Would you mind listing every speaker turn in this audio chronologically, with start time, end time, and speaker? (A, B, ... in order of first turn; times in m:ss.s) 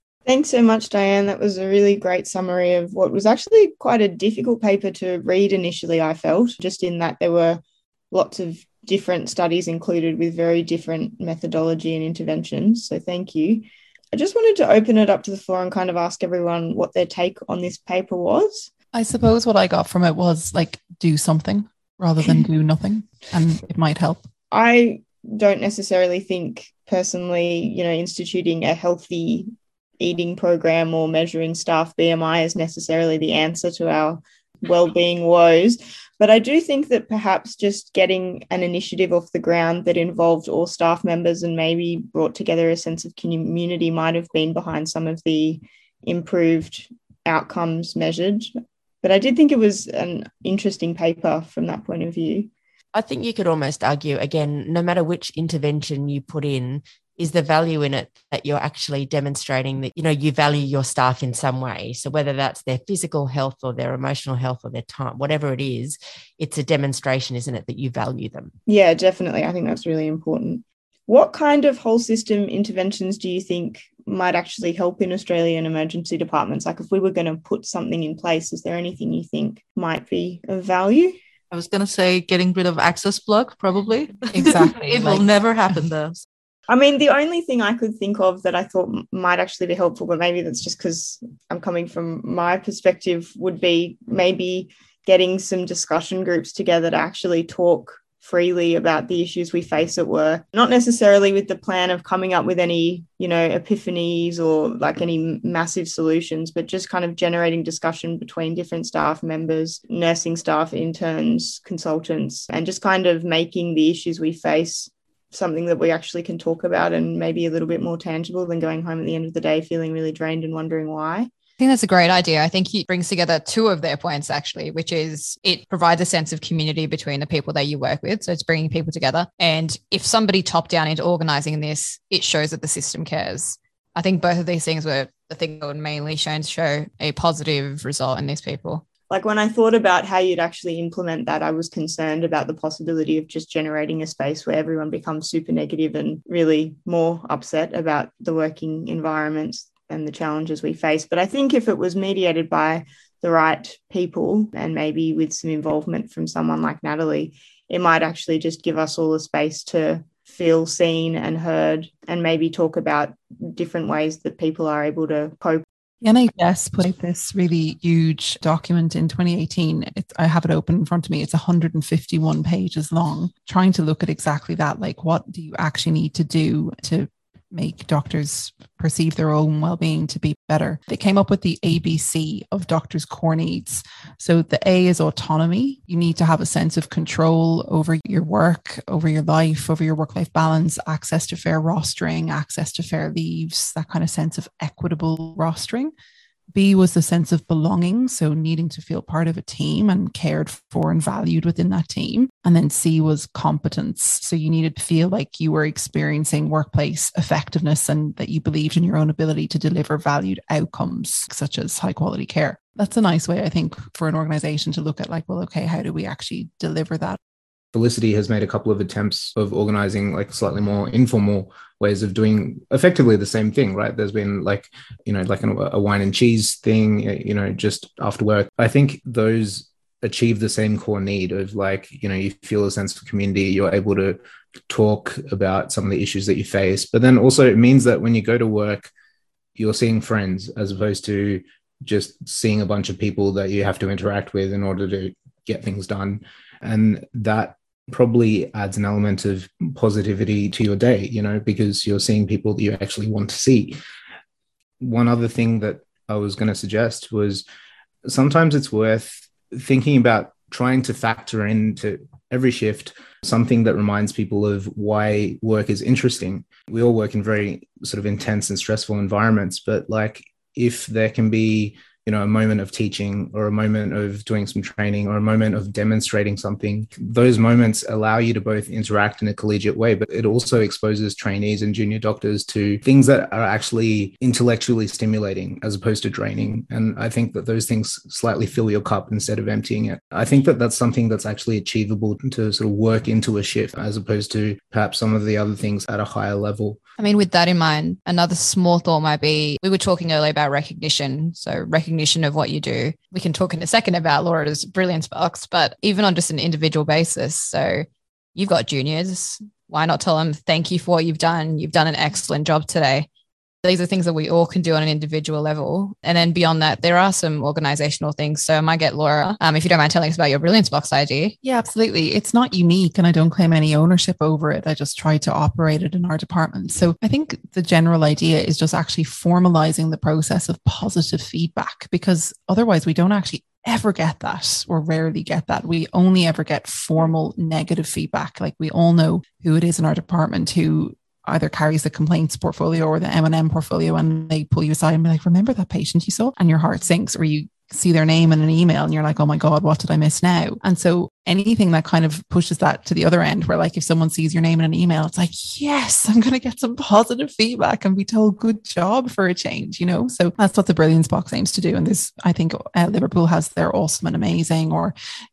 0:00.3-0:18.7 A
0:18.9-0:24.3 B
0:24.5-0:48.5 A
0:49.0-0:52.5 A
0:52.9-1:08.5 C
1:08.7-1:21.2 A
1:21.5-1:26.2 D
1:24.3-1:25.3 B
1:26.7-2:01.3 A
2:01.6-2:18.8 E
2:19.1-2:45.6 A
2:46.0-3:15.9 B
3:16.5-3:37.2 B
3:37.7-3:58.9 F
3:59.6-4:13.8 F
4:14.8-4:17.4 F
4:18.0-4:56.8 F
4:57.0-5:13.1 E
5:13.6-5:21.4 E
5:21.4-6:04.9 B